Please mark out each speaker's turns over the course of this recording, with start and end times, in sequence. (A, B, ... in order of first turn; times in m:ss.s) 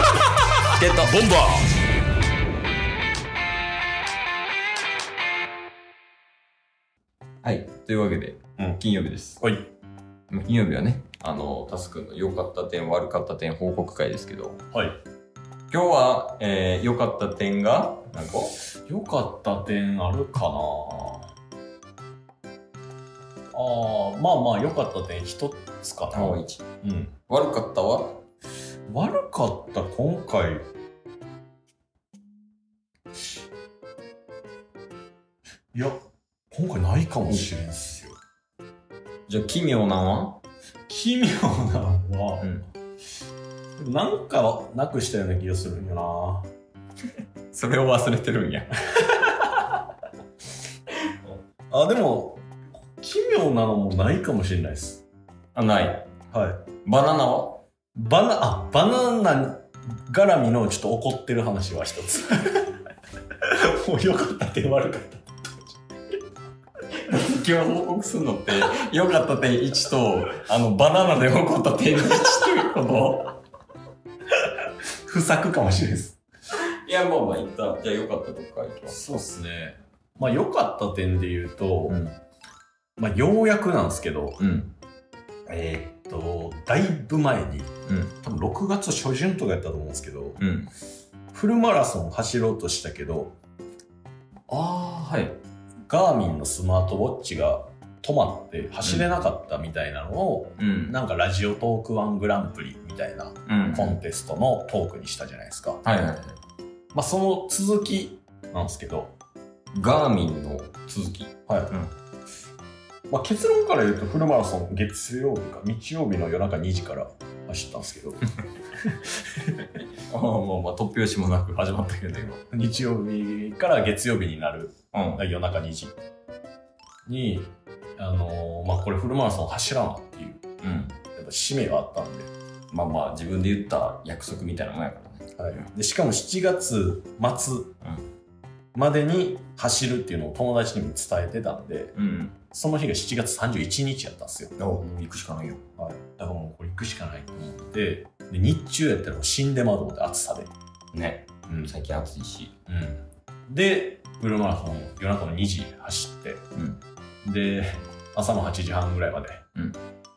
0:00.8-0:01.1 A
0:00.9-0:01.7 B
0:07.4-0:09.4 A
0:09.4-0:09.7 B
0:10.3-0:14.6 A
0:14.7-0:15.0 B
0:15.7-0:18.5 A
0:18.9-0:21.3 B
0:23.5-0:27.1 B
0:26.1-0:26.6 A
0:27.3-0:28.2 A
0:28.9-0:30.7 B
0:35.7-0:36.0 B
0:36.5-0:38.2 B
0:39.3-0:40.4 A
0:40.9-0:42.5 B
0:43.8-0:46.5 B
0:47.5-0:48.7 A
0:51.7-0:52.5 B
0:53.0-0:55.0 B
0:55.5-0:56.1 A
0:56.3-0:56.6 B
0:56.8-0:57.6 A
0:58.0-1:02.7 B
1:03.4-1:05.8 B
1:07.1-1:13.4 A
1:15.0-1:16.2 B
1:16.7-1:19.0 A
1:18.9-1:22.0 B
1:21.9-1:22.2 A
1:23.0-1:24.4 B
1:24.4-1:24.7 A
1:25.5-1:25.9 A
1:26.1-1:30.4 B
1:27.9-1:28.1 A
1:30.4-1:30.7 A
1:31.3-1:33.3 B
1:34.5-1:35.4 A
1:35.9-1:45.8 B
1:38.8-1:39.1 A
1:40.6-1:41.0 A
1:43.5-1:44.0 A
1:45.8-1:46.4 A
1:46.9-1:49.1 B
1:49.7-1:51.9 A
1:51.5-1:51.7 B
1:53.1-1:58.2 B
2:00.1-2:02.4 A
2:02.5-2:05.9 B
2:04.9-2:05.2 A
2:07.0-2:10.4 B
2:10.6-2:11.0 A
2:11.1-2:12.3 B
2:12.7-2:15.6 A
2:15.4-2:17.7 B
2:18.7-2:21.9 B
2:21.9-2:22.4 A
2:22.5-2:24.5 B
2:24.6-2:25.6 A
2:25.8-2:30.5 B
2:30.9-2:32.5 A
2:32.7-2:36.4 B
2:37.2-2:39.4 B